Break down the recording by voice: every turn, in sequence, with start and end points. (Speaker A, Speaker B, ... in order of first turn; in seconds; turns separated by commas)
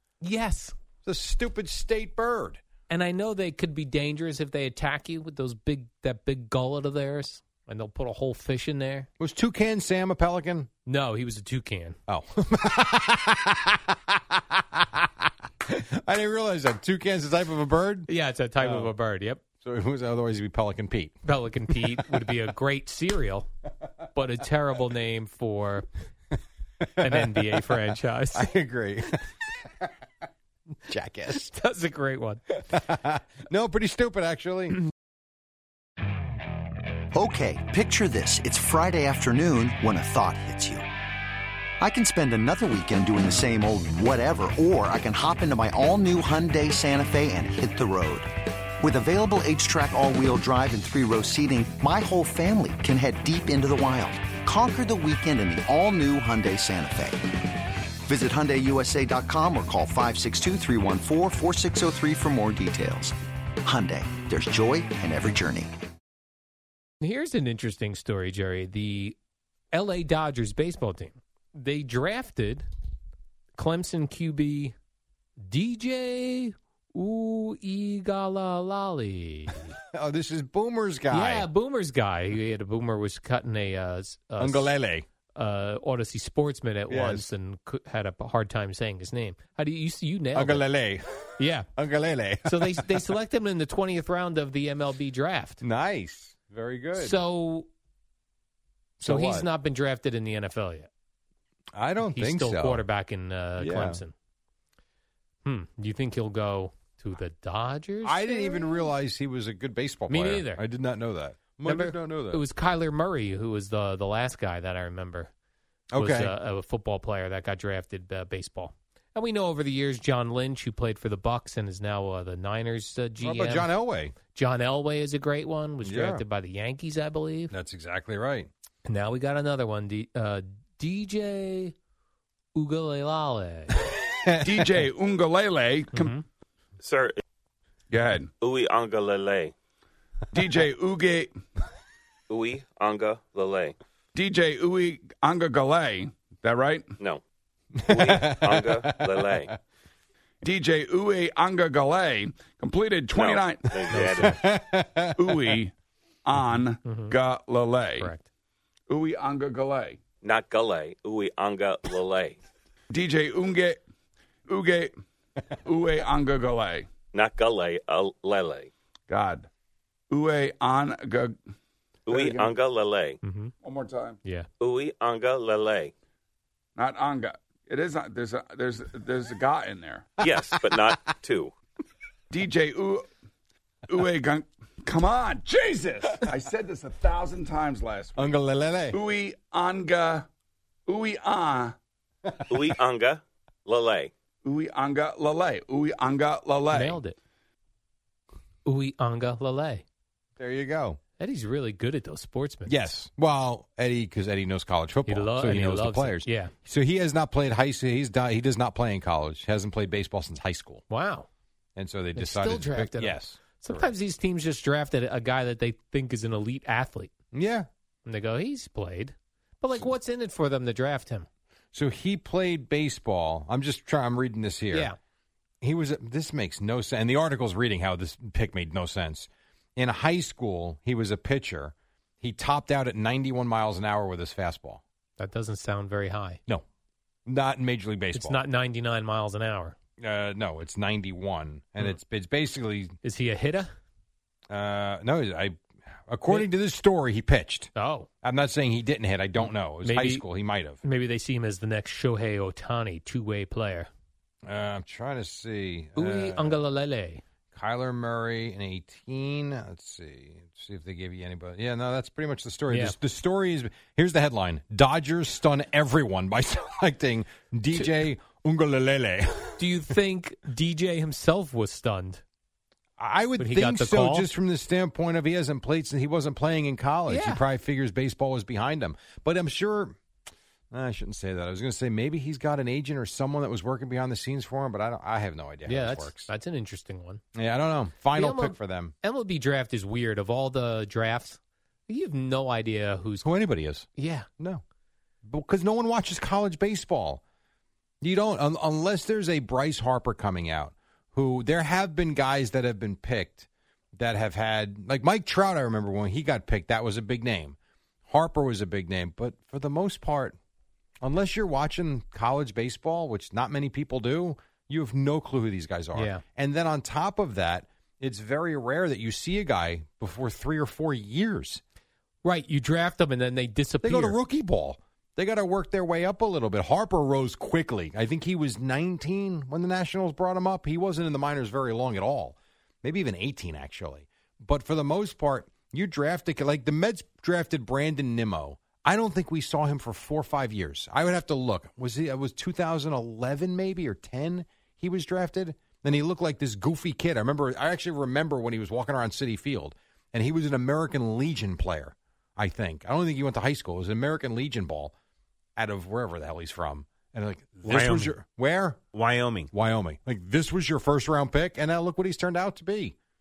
Speaker A: 0.2-0.7, Speaker B: 1.0-2.6, Speaker A: 2.9-9.1, Speaker B: 9.2-10.7, Speaker A: 10.8-12.0, Speaker B: 12.1-18.1, Speaker A: 18.1-19.4, Speaker B: 18.6-18.9, Speaker B: 19.6-21.2, Speaker A: 21.2-23.5, Speaker B: 21.8-22.3, Speaker A: 24.1-25.9, Speaker B: 27.0-27.7, Speaker A: 27.0-28.5, Speaker B: 28.3-29.9, Speaker B: 30.9-31.5, Speaker A: 31.3-32.4, Speaker B: 32.7-34.8, Speaker C: 37.1-40.9, Speaker C: 41.8-57.4, Speaker C: 58.0-65.7, Speaker A: 67.0-69.2, Speaker A: 69.7-72.6, Speaker A: 73.5-74.7, Speaker A: 75.4-79.7, Speaker B: 79.9-81.5, Speaker A: 81.1-84.7, Speaker B: 84.4-85.1, Speaker A: 85.3-90.7, Speaker B: 86.9-87.3, Speaker B: 90.3-93.0, Speaker A: 91.4-91.7, Speaker A: 92.5-95.6, Speaker B: 95.6-97.2, Speaker A: 97.0-97.7, Speaker B: 99.0-99.5, Speaker A: 99.0-100.9, Speaker B: 101.8-102.8, Speaker A: 102.0-104.1, Speaker B: 103.6-104.0, Speaker A: 105.4-108.9, Speaker B: 108.0-112.4, Speaker A: 110.1-110.6, Speaker A: 111.6-115.3, Speaker B: 115.9-116.3, Speaker A: 116.0-123.7, Speaker B: 123.2-124.2, Speaker A: 124.3-127.5, Speaker B: 125.8-126.2, Speaker B: 127.5-128.5, Speaker A: 128.8-131.7, Speaker A: 132.5-133.8, Speaker B: 134.2-134.7, Speaker D: 134.4-136.1, Speaker A: 135.9-136.2, Speaker E: 136.8-137.2, Speaker D: 137.9-138.3, Speaker E: 138.4-139.5, Speaker D: 140.3-141.3, Speaker E: 142.3-143.8, Speaker D: 144.1-146.9, Speaker B: 147.8-149.5, Speaker E: 147.9-149.5, Speaker D: 150.4-153.7, Speaker E: 153.1-154.5, Speaker B: 153.8-155.5, Speaker A: 153.9-154.4, Speaker D: 155.2-155.7, Speaker D: 156.2-158.1, Speaker A: 156.8-157.2, Speaker A: 158.0-158.3, Speaker D: 158.9-160.0, Speaker E: 160.2-162.4, Speaker D: 162.9-163.8, Speaker D: 164.5-164.9, Speaker D: 165.6-166.9, Speaker E: 167.1-168.7, Speaker D: 169.1-169.5, Speaker D: 170.1-171.3, Speaker E: 172.1-173.2, Speaker D: 172.1-172.6, Speaker A: 173.2-173.5, Speaker D: 173.6-174.2, Speaker A: 174.2-174.5, Speaker E: 174.6-175.9, Speaker D: 176.8-180.1, Speaker B: 180.2-180.8, Speaker E: 180.2-181.5, Speaker D: 182.3-183.0, Speaker D: 183.9-188.4, Speaker B: 188.2-189.0, Speaker D: 188.9-190.2, Speaker D: 190.9-191.7, Speaker E: 192.5-194.1, Speaker D: 194.4-197.0, Speaker A: 196.7-197.2, Speaker A: 198.6-199.8, Speaker B: 200.4-201.0, Speaker A: 201.2-202.9, Speaker B: 202.7-210.8, Speaker A: 205.1-206.5, Speaker A: 210.9-211.3, Speaker B: 211.8-213.9, Speaker A: 212.2-217.1, Speaker B: 217.3-217.7, Speaker A: 218.0-221.3, Speaker B: 221.7-224.9, Speaker A: 224.7-225.0, Speaker B: 225.6-234.8, Speaker A: 235.2-236.4, Speaker B: 237.3-238.4, Speaker A: 238.1-239.8, Speaker B: 240.0-242.9, Speaker A: 243.0-243.7, Speaker B: 244.5-247.7, Speaker A: 247.7-248.1, Speaker B: 248.2-250.8, Speaker A: 249.4-250.2, Speaker A: 250.8-253.9, Speaker B: 254.4-256.6, Speaker A: 255.9-257.2, Speaker B: 257.5-269.7, Speaker A: 262.7-262.9, Speaker A: 269.6-272.2, Speaker B: 273.0-279.9, Speaker A: 273.4-274.3, Speaker A: 277.1-277.4, Speaker B: 280.7-286.3, Speaker A: 285.6-287.2, Speaker B: 287.3-288.9, Speaker A: 288.1-293.3, Speaker B: 293.2-293.9, Speaker A: 293.9-294.3, Speaker B: 295.3-297.2, Speaker B: 298.0-307.6, Speaker B: 308.1-310.4, Speaker B: 311.0-321.6, Speaker A: 315.9-316.2, Speaker A: 322.2-324.2, Speaker B: 323.8-354.9, Speaker B: 355.6-358.8, Speaker E: 357.7-358.1, Speaker E: 358.9-359.5, Speaker B: 359.5-362.9